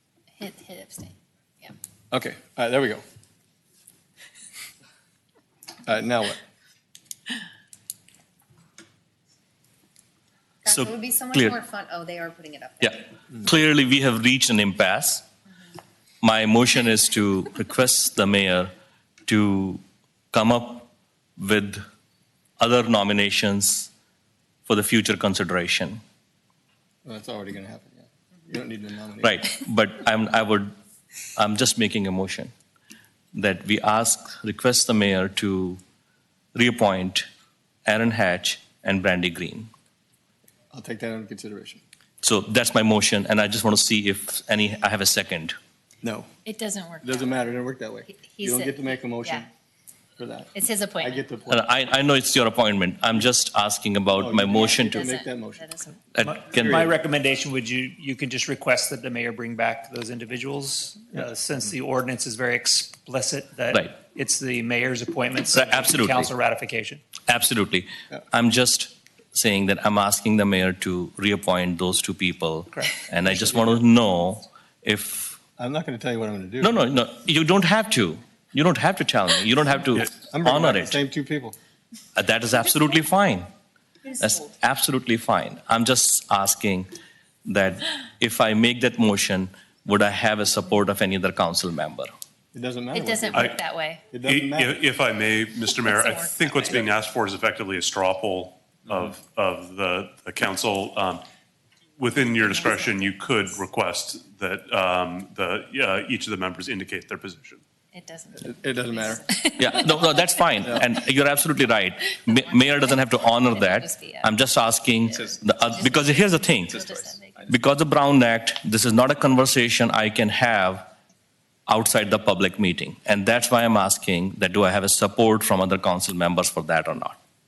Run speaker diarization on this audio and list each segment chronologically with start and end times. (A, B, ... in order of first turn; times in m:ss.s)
0:00.4-0:01.7 A
0:02.1-0:03.0 B
0:05.8-0:06.4 B
0:10.6-0:13.0 A
0:10.6-0:11.6 C
0:12.8-0:15.2 C
0:16.2-0:18.7 C
0:19.3-0:20.9 C
0:21.4-0:21.8 C
0:22.6-0:23.9 C
0:24.7-0:26.0 C
0:27.0-0:29.3 B
0:29.2-0:30.7 C
0:31.4-0:32.5 C
0:33.3-0:35.8 C
0:36.5-0:37.2 C
0:37.8-0:39.7 C
0:40.7-0:41.8 B
0:42.2-0:45.5 C
0:46.0-0:46.3 B
0:46.4-0:49.4 A
0:47.0-0:49.5 B
0:50.2-0:51.6 B
0:50.5-0:51.2 A
0:51.5-0:55.0 C
0:54.1-0:55.7 B
0:54.6-0:56.0 A
0:56.1-0:56.9 C
0:56.2-1:07.0 D
1:05.5-1:06.3 C
1:07.3-1:15.4 C
1:12.7-1:13.0 D
1:15.6-1:17.0 B
1:16.6-1:21.0 C
1:20.1-1:21.6 B
1:22.2-1:23.5 C
1:24.2-1:26.9 C
1:27.4-1:32.1 C
1:32.5-1:33.6 B
1:32.9-1:34.0 A
1:33.3-1:33.6 E
1:34.1-1:34.8 B
1:34.2-1:41.2 E
1:35.8-1:36.8 A
1:42.0-1:47.6 E
1:42.4-1:43.5 A
1:47.9-1:50.8 A
1:48.4-1:49.2 B
1:49.6-1:56.8 C
1:52.3-1:54.3 A
1:55.1-1:57.5 A
1:56.7-1:57.5 B
1:57.5-2:00.9 C
2:01.7-2:07.2 C